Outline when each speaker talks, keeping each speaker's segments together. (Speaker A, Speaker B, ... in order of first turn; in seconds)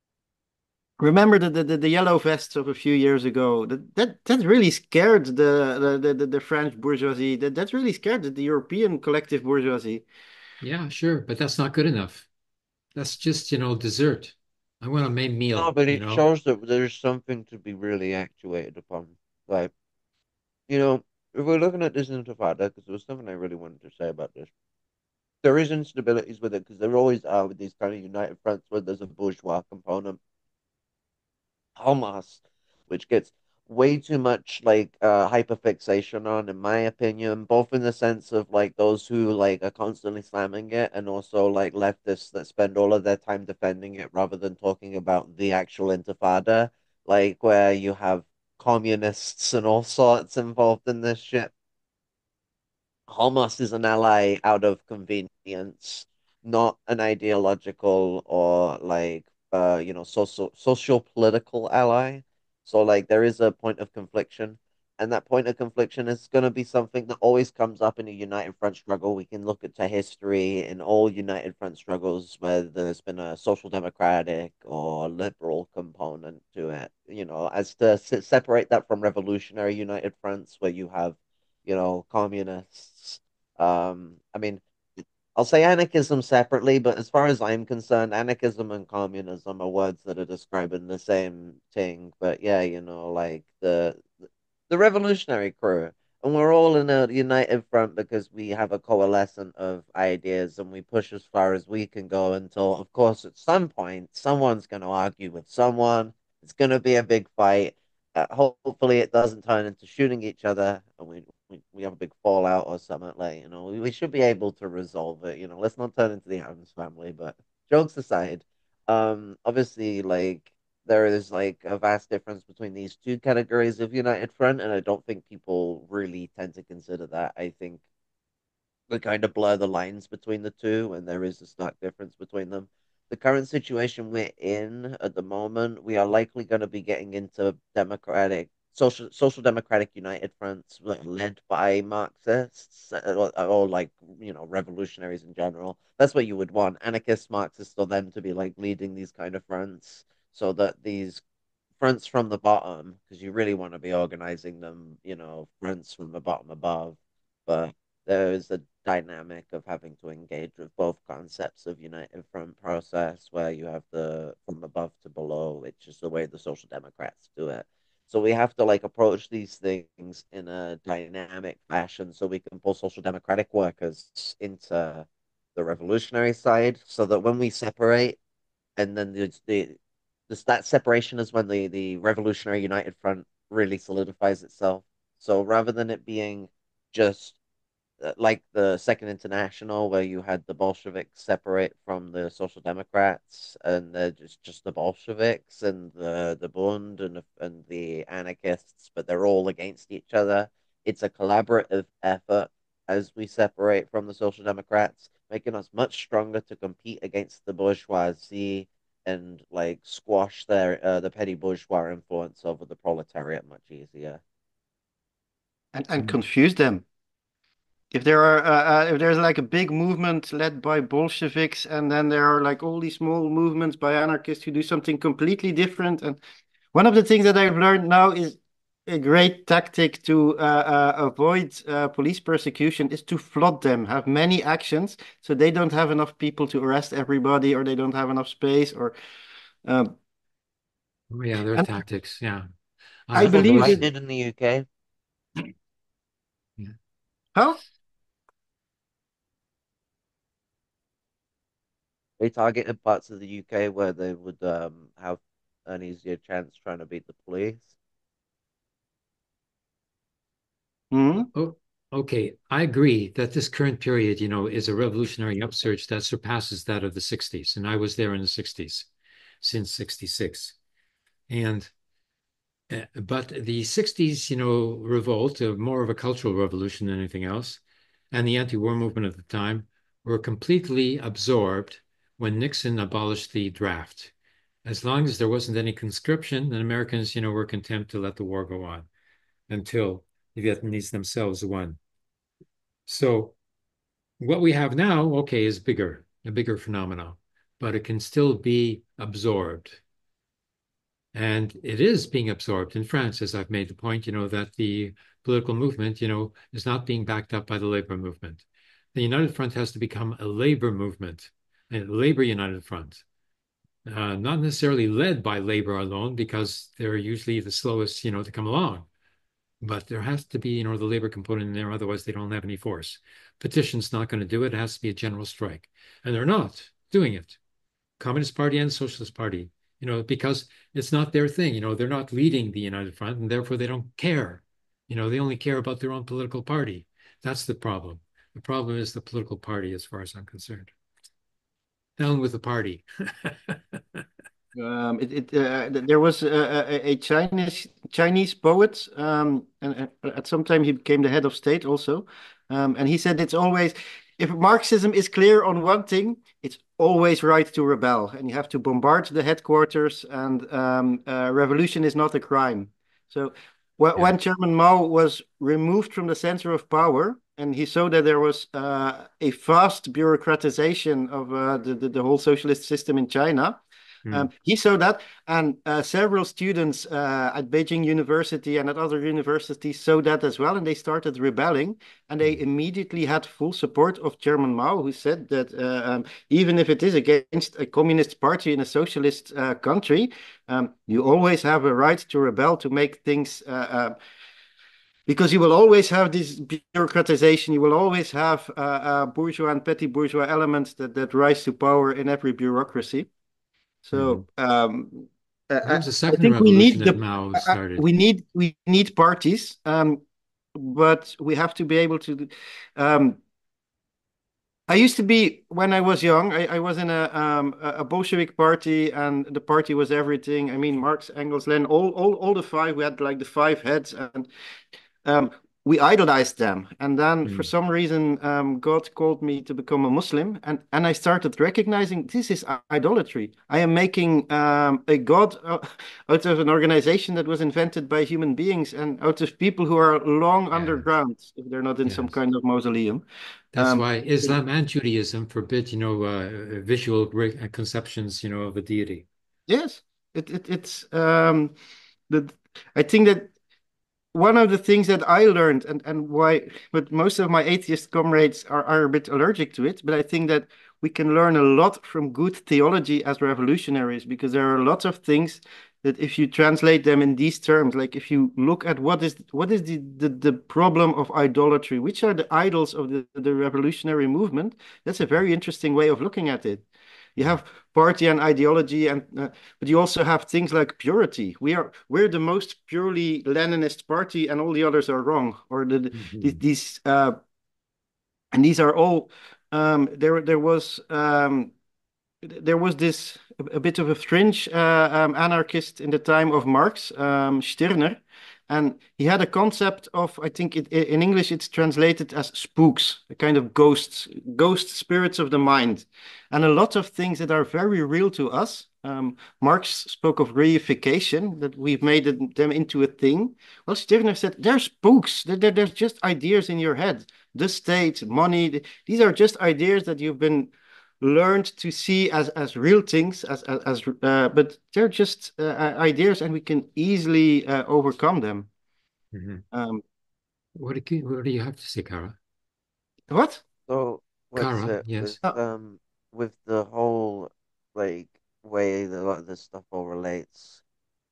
Speaker A: 1.0-10.1, 215.7-216.8, 217.9-226.2, 226.7-238.9, 239.6-239.9, 243.1-243.8, 247.3-247.6, 260.9-261.3, 344.6-393.9, 395.1-403.1, 403.8-410.0, 410.6-413.2, 414.7-424.3, 425.0-443.0, 443.6-444.3, 449.5-451.5, 452.1-453.3, 454.1-487.2, 488.3-491.5, 492.2-528.5, 529.5-529.8, 533.1-533.4
Speaker B: 10.6-12.3, 12.9-16.2, 241.1-242.4, 243.1-243.9, 261.3-268.9, 269.4-270.6, 271.3-271.7, 272.7-284.1, 284.6-288.9, 289.5-291.8, 292.9-293.4, 294.2-299.8, 301.1-313.0, 313.9-318.9, 319.6-327.4, 328.0-340.7, 342.0-344.0, 403.9-404.2, 405.6-407.8, 440.5-440.9, 441.9-442.2, 443.6-449.1, 486.0-486.4, 529.1-529.4, 530.5-532.2, 534.4-535.2
Speaker C: 15.6-19.7, 20.7-24.5, 25.4-30.2, 31.8-51.5, 53.1-94.2, 94.7-127.8, 128.9-151.2, 151.8-178.2, 178.8-179.8, 180.3-187.4, 188.0-214.2, 243.2-244.7, 252.2-257.7, 533.7-540.6